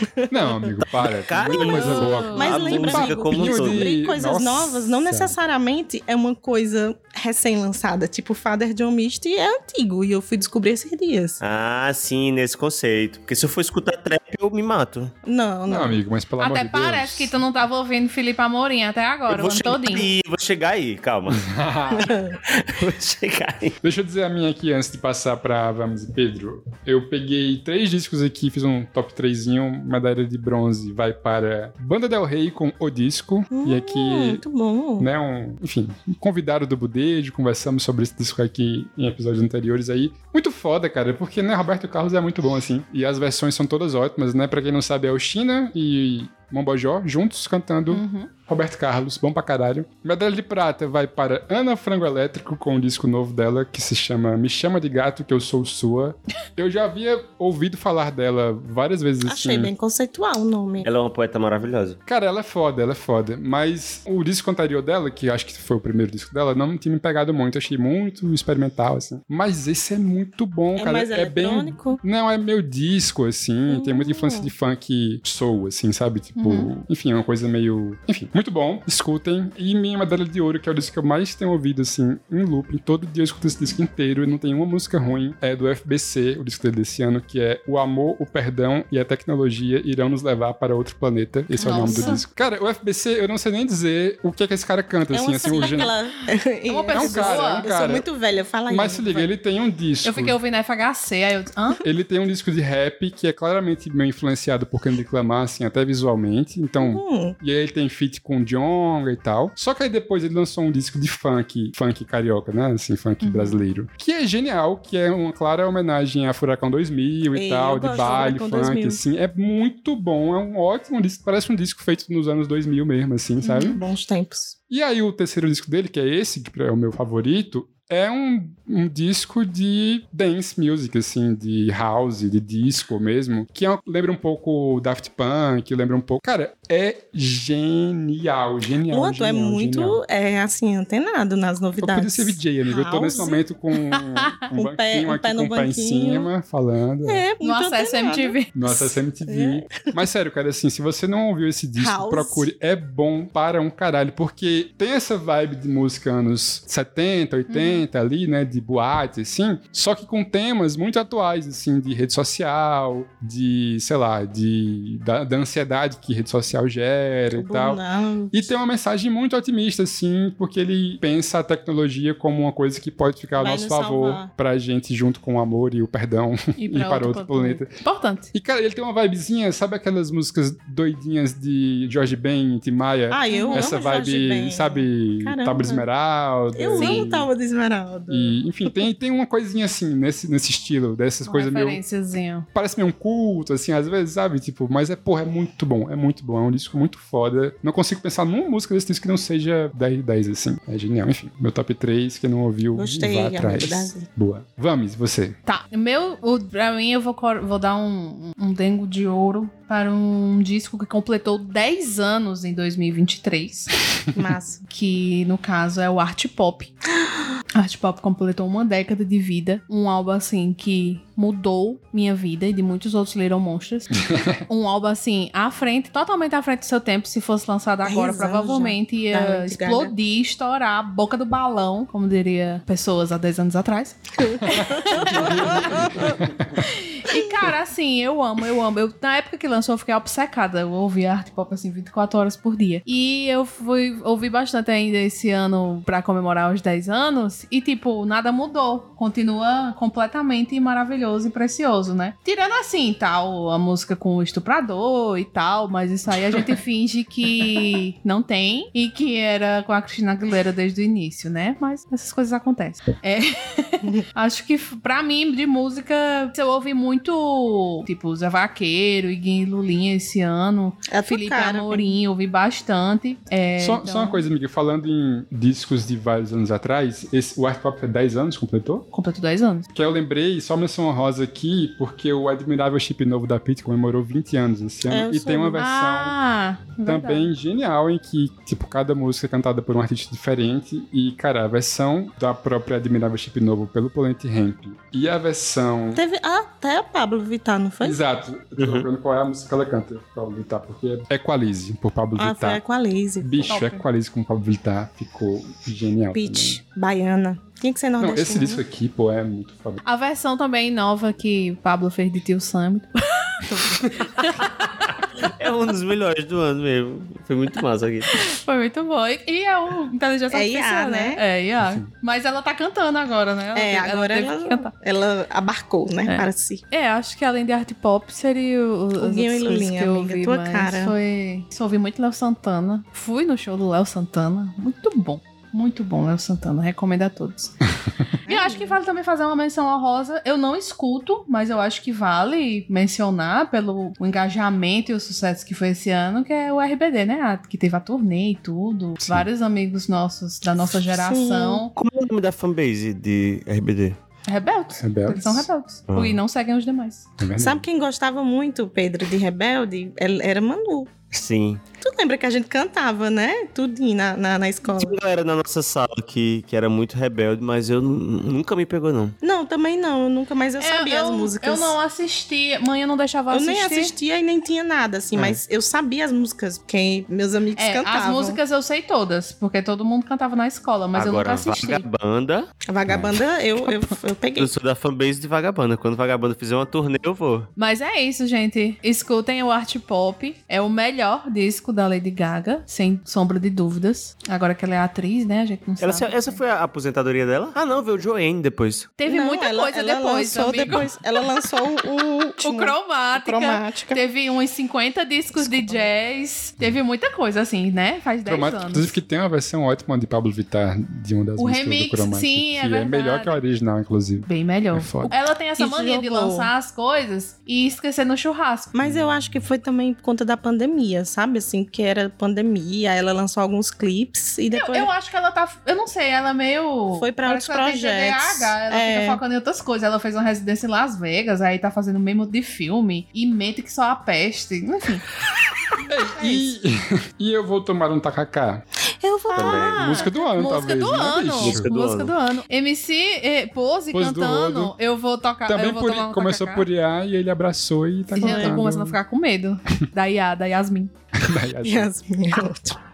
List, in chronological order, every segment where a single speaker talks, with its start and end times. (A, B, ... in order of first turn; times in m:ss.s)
0:00.2-0:00.8 A
0:00.3-0:05.3 B
0:01.3-0:03.9 C
0:01.4-0:11.4 A
0:01.6-0:02.5 D
0:11.4-0:15.1 C
0:15.2-0:16.0 A
0:15.7-0:17.4 B
0:16.4-0:20.1 D
0:19.3-0:21.4 C
0:21.3-0:22.1 B
0:22.0-0:22.3 A
0:22.5-0:23.8 C
0:23.8-0:34.4 B
0:33.5-0:35.1 A
0:35.0-0:59.7 B
0:47.9-0:48.3 D
0:59.2-1:00.9 A
1:00.8-1:02.0 C
1:02.0-1:35.9 B
1:10.8-1:12.0 A
1:13.7-1:14.5 A
1:16.4-1:16.7 D
1:31.6-1:32.2 D
1:31.6-1:32.2 A
1:35.1-1:39.3 A
1:35.5-1:35.9 D
1:36.7-1:37.7 D
1:36.9-1:38.1 B
1:38.7-1:40.4 B
1:40.0-1:41.8 D
1:41.8-2:03.8 B
1:46.8-1:47.4 A
1:53.2-1:53.6 D
1:57.3-1:59.0 A
2:03.4-2:04.6 A
2:04.7-2:20.0 B
2:18.9-2:23.4 A
2:21.8-2:27.2 B
2:23.9-2:24.3 D
2:24.5-2:26.3 A
2:27.0-2:28.4 A
2:27.4-2:28.9 D
2:28.5-2:47.8 B
2:29.2-2:29.9 A
2:31.8-2:32.5 A
2:37.5-2:37.8 D
2:47.3-2:48.5 A
2:48.3-2:57.7 B
2:53.4-2:54.3 A
2:56.6-2:58.3 D
2:58.3-3:07.3 B
3:03.1-3:05.8 A
3:03.3-3:03.7 D
3:06.5-3:08.8 A
3:06.8-3:07.1 D
3:08.1-3:11.8 B
3:11.2-3:12.4 D
3:12.5-3:25.4 B
3:22.7-3:24.1 A
3:25.4-3:33.7 D
3:34.1-3:34.6 A
3:34.7-3:36.7 D
3:37.5-3:55.9 D
3:44.0-3:44.4 B
3:47.8-3:49.9 A
3:54.2-3:56.1 A
3:55.1-3:56.5 B
3:56.6-4:34.2 D
4:30.9-4:32.0 A
4:33.6-4:38.9 B
4:38.9-4:39.7 D
4:39.7-4:46.1 B
4:44.9-4:45.6 A
4:45.6-4:47.3 D
4:46.8-4:56.0 B
4:55.9-4:58.0 A
4:57.8-5:02.6 B
4:58.6-4:58.9 C
5:02.2-5:03.6 A
5:03.2-5:06.6 B
5:03.5-5:03.8 D
5:06.1-5:08.6 A
5:08.0-5:09.8 B
5:09.8-5:14.8 D
5:15.2-5:18.1 C
5:18.1-5:24.7 D
5:20.3-5:21.2 A
5:21.6-5:21.9 B
5:23.5-5:26.6 A
5:26.0-5:37.5 D
5:29.0-5:30.9 A
5:38.2-5:51.7 D
5:38.2-5:38.8 A
5:49.0-5:49.2 B
5:50.8-5:51.6 A
5:51.8-5:54.0 C
5:54.3-5:57.1 D
5:54.8-5:55.5 B
5:55.9-5:56.2 C
5:57.2-5:57.6 B
5:57.4-6:00.9 A
6:01.1-6:01.6 C
6:01.8-6:04.9 A
6:04.6-6:09.2 C
6:09.2-6:11.8 A
6:10.6-6:13.9 D
6:13.3-6:18.4 A
6:17.6-6:21.8 D
6:20.9-6:22.5 C
6:22.7-6:24.5 A
6:22.9-6:23.2 B
6:24.4-6:27.5 C
6:27.6-6:36.4 D
6:35.8-6:38.9 C
6:39.0-6:40.9 D
6:39.0-6:44.0 A
6:42.4-6:49.0 D
6:45.3-6:45.9 A
6:48.2-6:55.1 B
6:51.4-6:53.4 D
6:54.3-6:58.7 D
6:55.1-6:56.5 A
6:58.7-7:04.9 A
7:04.5-7:15.0 D
7:06.9-7:09.2 A
7:15.9-7:18.6 B
7:19.0-7:19.8 A
7:19.3-7:26.7 D
7:19.3-7:19.8 C
7:19.6-7:21.7 B
7:21.4-7:22.1 C
7:23.9-7:24.7 B
7:25.5-7:29.0 B
7:28.1-7:30.9 D
7:28.2-7:28.6 A
7:31.1-7:31.9 B
7:31.6-7:32.8 A